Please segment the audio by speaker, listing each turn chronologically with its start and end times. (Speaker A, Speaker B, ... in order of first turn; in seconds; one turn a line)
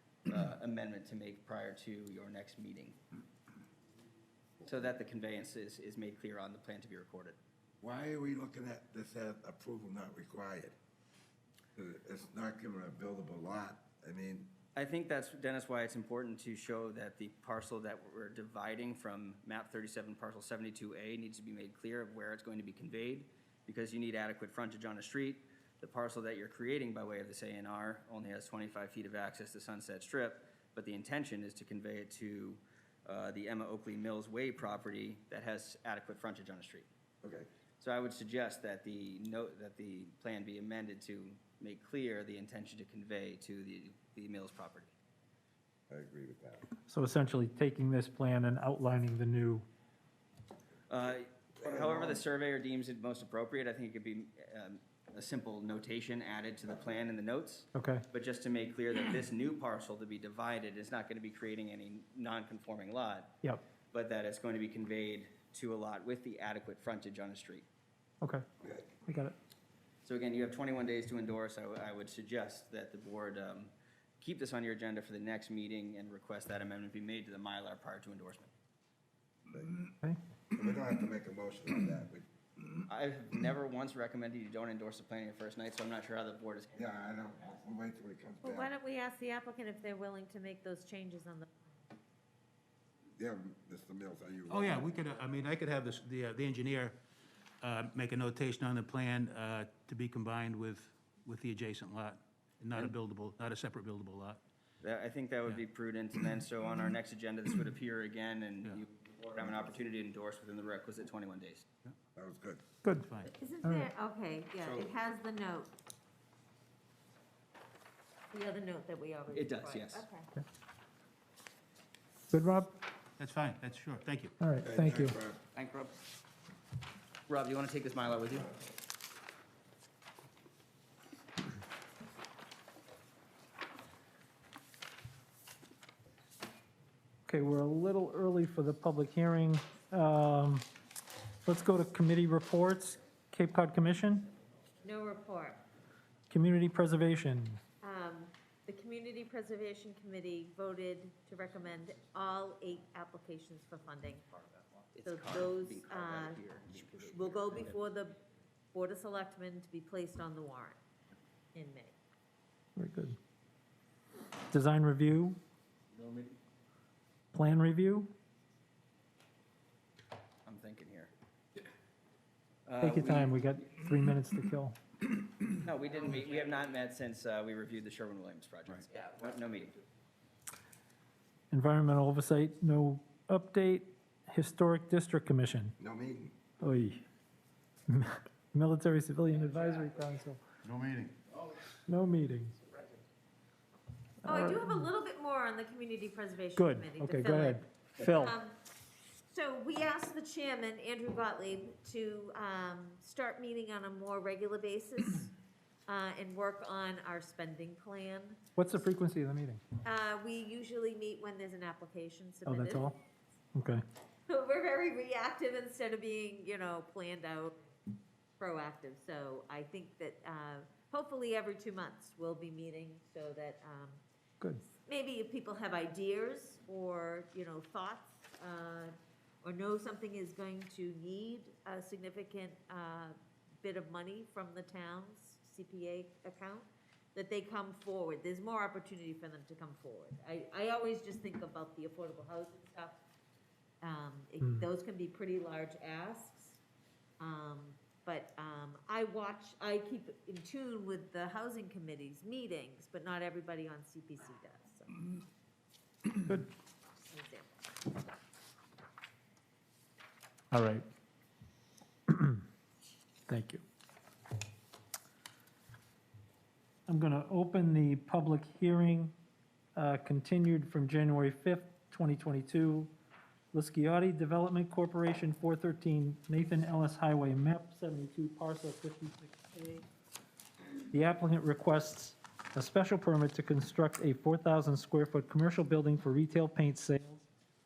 Speaker A: 0.2-3.0
Speaker A: 4.6-7.4
Speaker B: 7.8-10.8
Speaker B: 11.8-14.5
Speaker A: 14.8-36.9
Speaker B: 37.2-37.5
Speaker A: 37.8-44.9
Speaker B: 45.9-46.7
Speaker C: 46.9-49.7
Speaker A: 50.9-63.4
Speaker B: 51.6-52.2
Speaker C: 57.8-58.0
Speaker A: 63.9-67.7
Speaker C: 69.0-69.3
Speaker A: 70.0-78.5
Speaker B: 79.5-79.8
Speaker B: 80.5-82.2
Speaker A: 82.9-86.8
Speaker B: 86.8-88.7
Speaker D: 88.4-91.9
Speaker B: 93.2-94.9
Speaker E: 94.5-97.0
Speaker E: 97.6-104.4
Speaker A: 104.8-111.7
Speaker B: 112.2-112.6
Speaker C: 112.8-113.1
Speaker E: 113.0-113.3
Speaker D: 113.2-115.7
Speaker D: 118.3-120.3
Speaker A: 119.3-120.1
Speaker C: 122.3-122.8
Speaker E: 123.2-124.3
Speaker C: 124.4-125.2
Speaker B: 124.6-125.4
Speaker A: 125.5-126.0
Speaker A: 127.3-128.5
Speaker C: 137.3-140.7
Speaker C: 141.5-144.3
Speaker D: 144.8-145.6
Speaker C: 146.3-147.6
Speaker D: 147.8-154.2
Speaker A: 154.9-157.8
Speaker D: 155.0-156.4
Speaker D: 156.9-158.2
Speaker D: 158.7-160.8
Speaker D: 161.6-161.9
Speaker C: 162.8-163.2
Speaker C: 164.5-165.4
Speaker C: 167.3-168.1
Speaker A: 170.4-171.1
Speaker A: 172.7-173.3
Speaker C: 172.8-174.8
Speaker A: 175.6-179.8
Speaker C: 181.5-185.8
Speaker B: 185.8-186.3
Speaker C: 186.6-187.0
Speaker C: 187.9-190.4
Speaker E: 190.6-191.2
Speaker C: 191.9-192.6
Speaker C: 194.2-194.9
Speaker D: 194.2-198.6
Speaker C: 196.6-198.3
Speaker D: 199.3-205.3
Speaker D: 205.9-208.4
Speaker C: 208.6-209.6
Speaker D: 209.8-212.9
Speaker C: 212.5-213.0
Speaker C: 213.6-213.8
Speaker D: 214.3-217.7
Speaker D: 218.4-224.0
Speaker D: 224.8-243.0
Speaker D: 243.8-246.6
Speaker C: 244.4-244.7
Speaker D: 247.2-255.1
Speaker C: 256.2-256.5
Speaker D: 257.0-257.7
Speaker C: 260.5-260.8
Speaker C: 262.1-262.4
Speaker C: 263.3-263.6
Speaker C: 266.9-269.1
Speaker C: 269.8-272.9
Speaker C: 273.5-279.9
Speaker C: 280.9-287.2